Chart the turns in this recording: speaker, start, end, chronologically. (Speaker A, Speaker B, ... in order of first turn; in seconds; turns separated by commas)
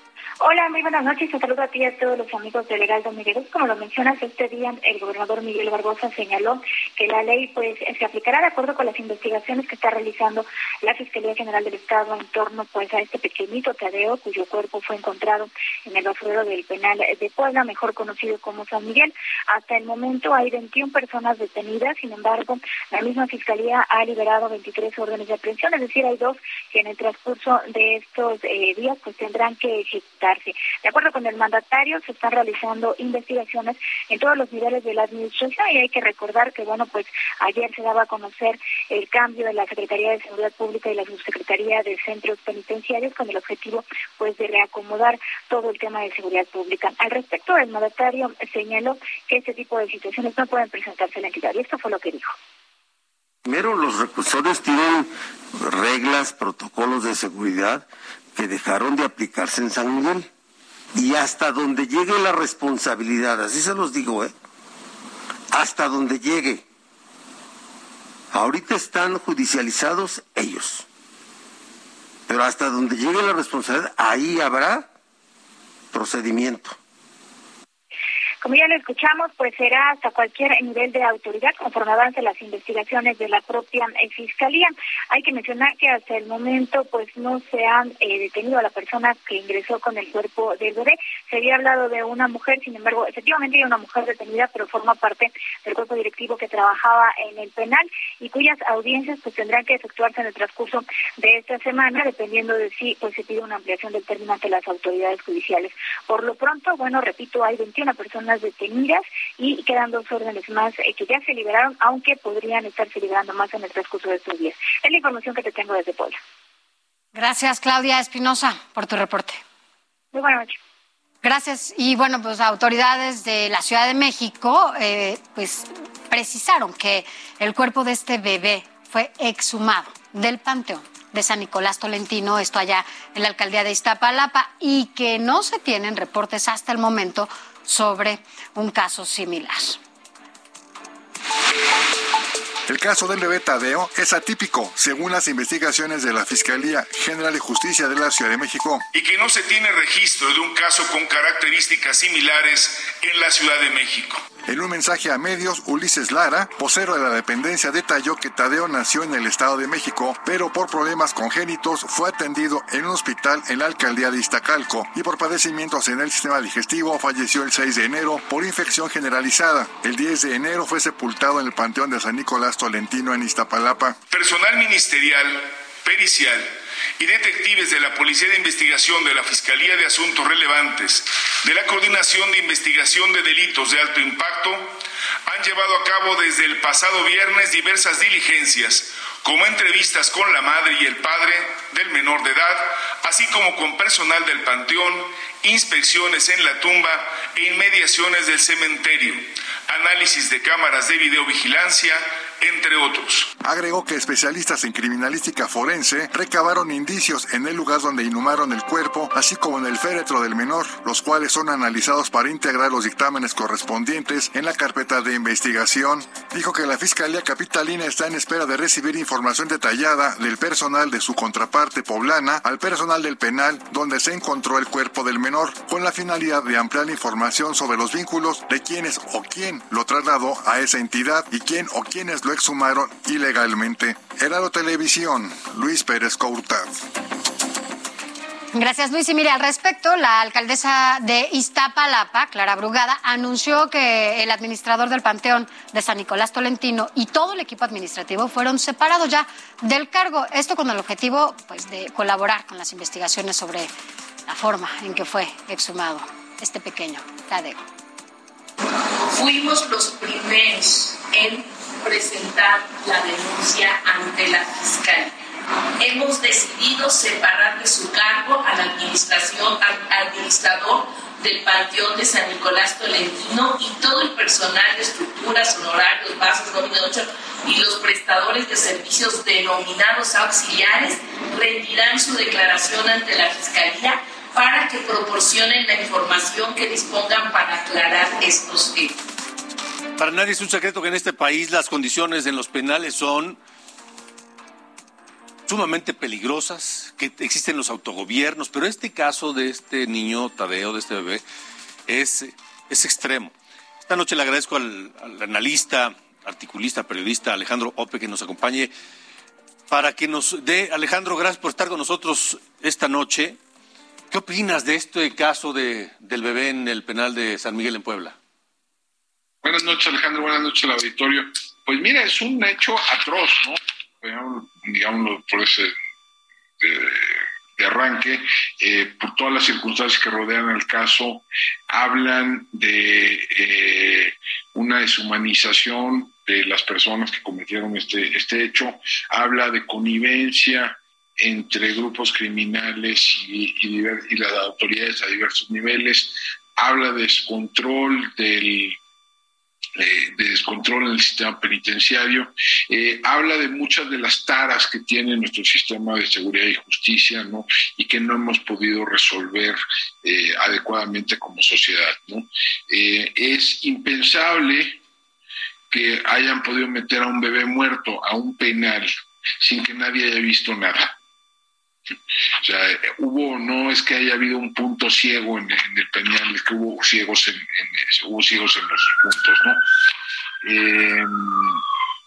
Speaker A: 0.4-52.4, Speaker B: 53.5-60.3, Speaker B: 61.0-64.3, Speaker B: 65.5-66.6, Speaker B: 68.3-70.9, Speaker B: 72.3-74.9, Speaker B: 75.9-76.8, Speaker A: 78.4-116.2, Speaker C: 117.1-119.4, Speaker A: 120.1-120.5, Speaker C: 121.2-139.8, Speaker D: 142.7-148.8, Speaker E: 148.9-154.2, Speaker D: 154.5-174.0, Speaker E: 174.1-184.7, Speaker E: 185.3-203.3, Speaker D: 203.4-236.7, Speaker C: 238.5-253.7, Speaker C: 254.3-257.6, Speaker F: 259.1-265.1, Speaker F: 265.8-289.0, Speaker G: 290.0-293.4, Speaker G: 295.5-301.2, Speaker G: 301.9-303.3, Speaker G: 303.8-308.7, Speaker G: 309.7-313.4, Speaker G: 314.1-318.2, Speaker H: 319.4-325.7, Speaker H: 326.6-348.8, Speaker H: 349.8-364.8, Speaker H: 365.7-370.9, Speaker H: 372.4-379.6, Speaker H: 380.4-381.6